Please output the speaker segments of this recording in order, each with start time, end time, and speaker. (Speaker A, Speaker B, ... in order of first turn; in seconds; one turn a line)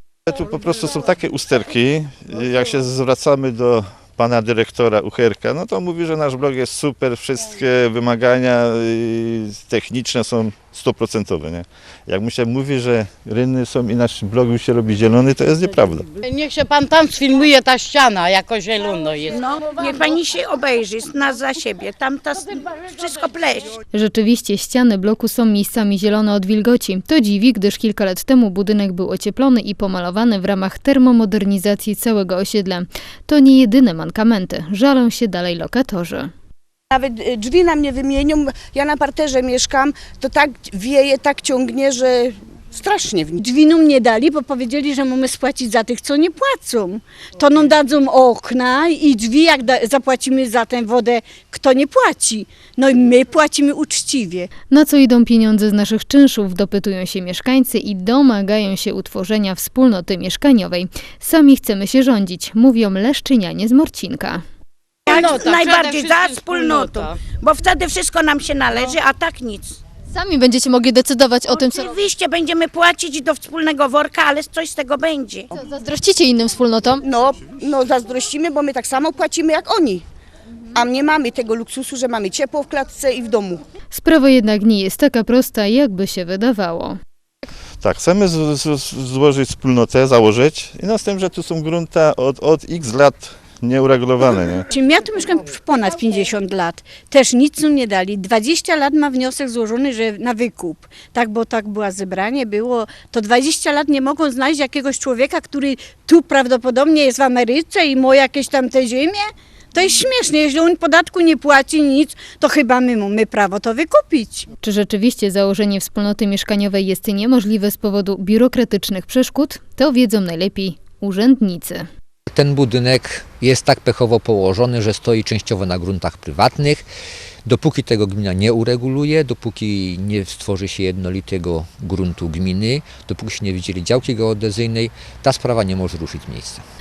Speaker A: 0.3-16.1
Speaker B: 16.2-19.4
Speaker C: 19.3-23.8
Speaker D: 23.9-36.3
Speaker E: 36.9-43.4
Speaker F: 43.4-54.5
Speaker D: 54.7-64.4
Speaker C: 65.0-69.8
Speaker B: 65.1-67.2
Speaker D: 70.1-71.9
Speaker C: 71.5-75.5
Speaker D: 75.5-77.0
Speaker E: 77.0-80.0
Speaker E: 80.7-83.6
Speaker D: 83.9-87.0
Speaker A: 87.8-94.7
Speaker F: 94.7-114.5
Speaker D: 114.6-121.9
Speaker G: 122.3-126.9
Speaker G: 127.4-136.6